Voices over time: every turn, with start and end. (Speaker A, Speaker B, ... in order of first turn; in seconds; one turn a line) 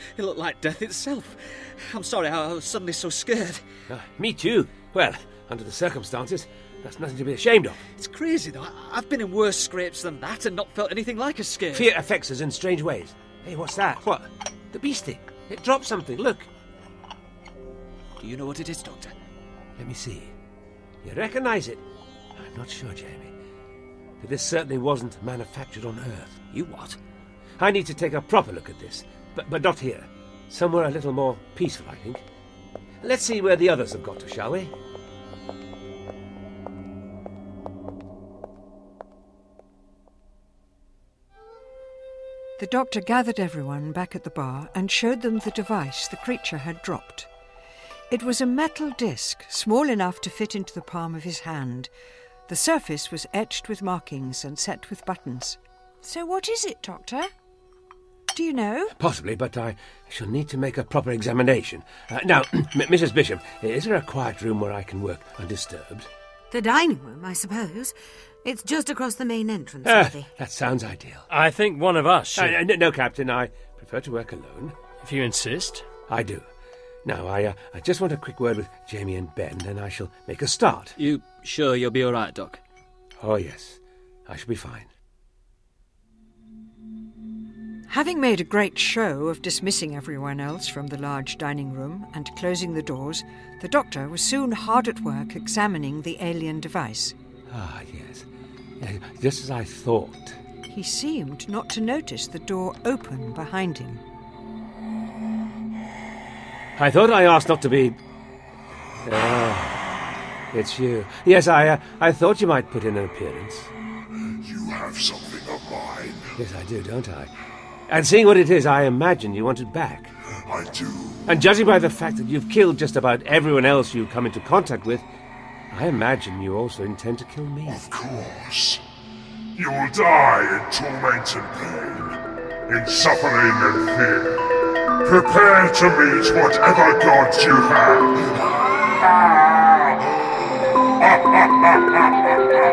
Speaker A: 0.2-3.6
Speaker B: 3.9-7.8
Speaker A: 8.0-11.9
Speaker B: 11.7-16.5
Speaker A: 18.2-19.1
Speaker B: 19.8-20.3
Speaker B: 21.0-21.8
Speaker B: 22.4-23.3
Speaker B: 24.2-26.4
Speaker A: 26.5-27.0
Speaker B: 27.6-32.2
Speaker B: 33.0-34.7
Speaker C: 42.6-47.3
Speaker C: 48.1-51.9
Speaker C: 52.5-57.3
Speaker C: 58.3-58.9
Speaker B: 59.0-66.1
Speaker D: 66.5-70.3
Speaker B: 69.8-71.3
Speaker E: 71.3-72.6
Speaker B: 72.3-74.8
Speaker E: 75.0-75.9
Speaker B: 76.1-76.5
Speaker B: 77.0-81.0
Speaker A: 81.0-82.6
Speaker B: 83.2-84.9
Speaker C: 87.9-97.1
Speaker B: 97.5-98.3
Speaker B: 98.8-100.4
Speaker C: 100.7-104.0
Speaker B: 106.8-108.0
Speaker B: 109.0-109.8
Speaker B: 110.5-113.7
Speaker F: 114.4-116.3
Speaker B: 116.4-117.3
Speaker B: 117.9-120.1
Speaker F: 120.5-121.3
Speaker B: 121.3-125.0
Speaker B: 125.7-127.8
Speaker F: 127.7-128.8
Speaker F: 129.6-134.5
Speaker F: 135.0-138.5